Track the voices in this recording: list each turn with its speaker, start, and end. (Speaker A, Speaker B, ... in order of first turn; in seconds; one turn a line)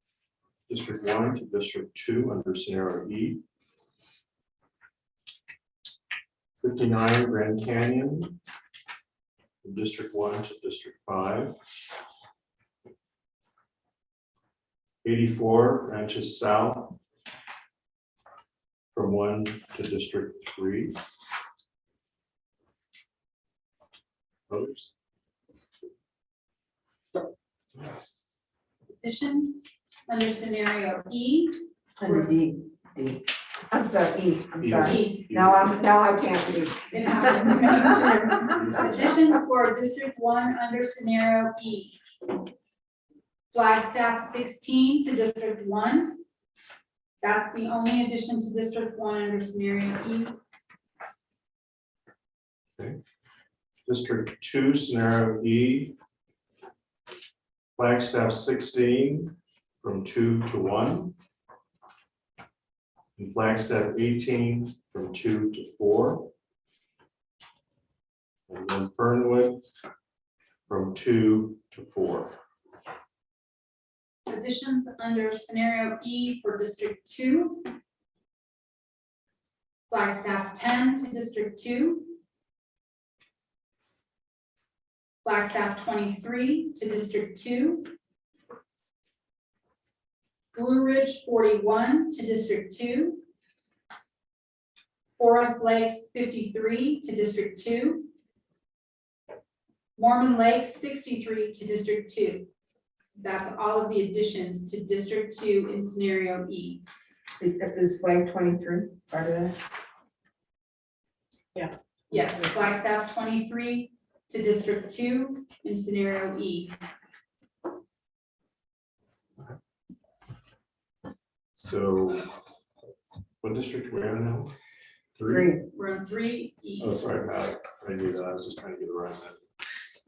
Speaker A: 0.7-3.4
Speaker A: 6.6-8.4
Speaker A: 9.6-11.6
Speaker A: 15.0-17.0
Speaker A: 18.9-21.0
Speaker A: 24.5-24.9
Speaker A: 27.7-28.2
Speaker B: 29.0-32.3
Speaker C: 32.0-38.9
Speaker A: 34.6-35.7
Speaker B: 34.8-35.3
Speaker B: 36.9-42.0
Speaker A: 38.5-39.1
Speaker B: 43.5-46.2
Speaker B: 47.2-50.3
Speaker A: 53.9-56.0
Speaker A: 57.8-61.1
Speaker A: 63.2-66.3
Speaker A: 68.5-69.6
Speaker A: 70.7-72.4
Speaker B: 74.3-77.7
Speaker B: 79.9-82.2
Speaker B: 85.2-87.9
Speaker B: 90.5-93.2
Speaker B: 95.2-98.1
Speaker B: 100.0-102.5
Speaker B: 103.2-106.8
Speaker C: 107.4-109.6
Speaker B: 112.1-116.7
Speaker A: 121.6-122.3
Speaker A: 123.4-124.5
Speaker A: 125.1-125.5
Speaker C: 125.3-125.6
Speaker B: 125.7-127.0
Speaker A: 126.8-129.4